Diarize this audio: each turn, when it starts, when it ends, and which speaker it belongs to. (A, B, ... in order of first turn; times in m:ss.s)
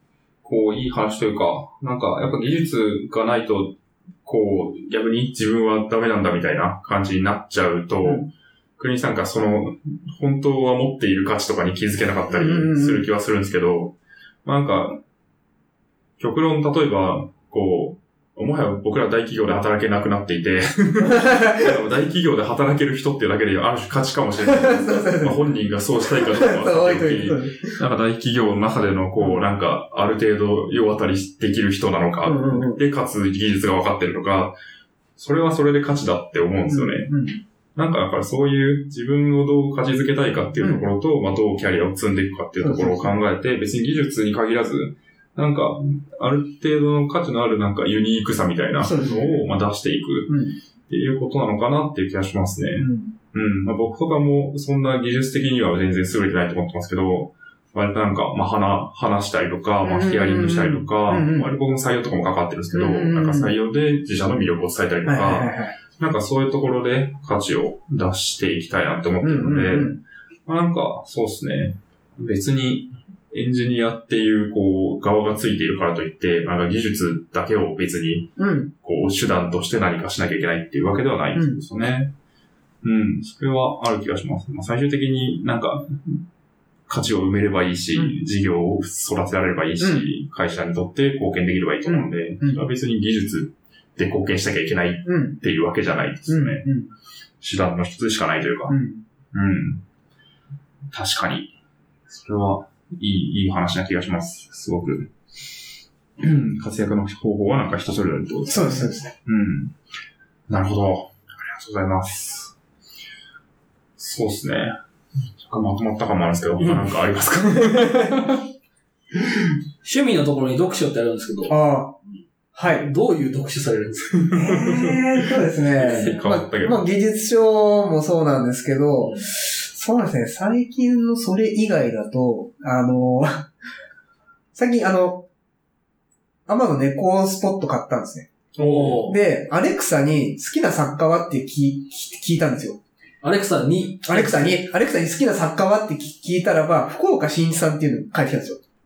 0:00.4-0:15.0 A
0:08.0-0:08.3 B
0:12.3-0:13.1 B
0:16.2-0:34.6 A
0:21.0-0:21.8 B
0:24.4-0:25.5 B
0:26.0-0:27.8 B
0:32.2-0:32.8 B
0:35.2-0:37.1 A
0:36.7-0:37.4 B
0:37.8-0:50.4 A
0:40.6-0:40.9 B
0:42.6-0:43.2 B
0:48.8-0:49.5 B
0:50.3-0:50.6 B
0:50.9-1:22.1 A
0:52.8-0:53.1 B
0:59.8-1:01.5 B
1:02.7-1:03.6 B
1:05.0-1:05.8 B
1:09.2-1:10.0 B
1:18.4-1:18.7 B
1:21.4-1:21.6 B
1:22.8-1:26.2 A
1:26.9-1:36.7 A
1:29.8-1:30.1 B
1:31.9-1:32.6 B
1:35.1-1:35.4 B
1:36.3-1:36.9 B
1:37.4-1:38.8 A
1:38.7-1:39.0 B
1:39.3-1:39.8 A
1:40.9-1:41.5 A
1:42.1-1:45.1 A
1:46.2-1:49.7 A
1:48.5-1:49.1 B
1:50.5-1:52.6 A
1:54.0-1:54.8 A
1:55.4-1:58.4 A
1:56.6-1:56.9 C
1:57.5-1:58.2 B
1:59.8-2:01.6 C
2:01.5-2:02.0 B
2:02.1-2:04.4 C
2:02.6-2:02.9 B
2:04.3-2:06.8 A
2:04.4-2:13.5 B
2:05.8-2:06.2 C
2:09.0-2:09.3 C
2:14.5-2:15.3 B
2:16.5-2:18.3 B
2:18.6-2:19.2 C
2:18.6-2:18.9 A
2:18.8-2:22.8 B
2:23.2-2:24.6 C
2:24.1-2:28.6 B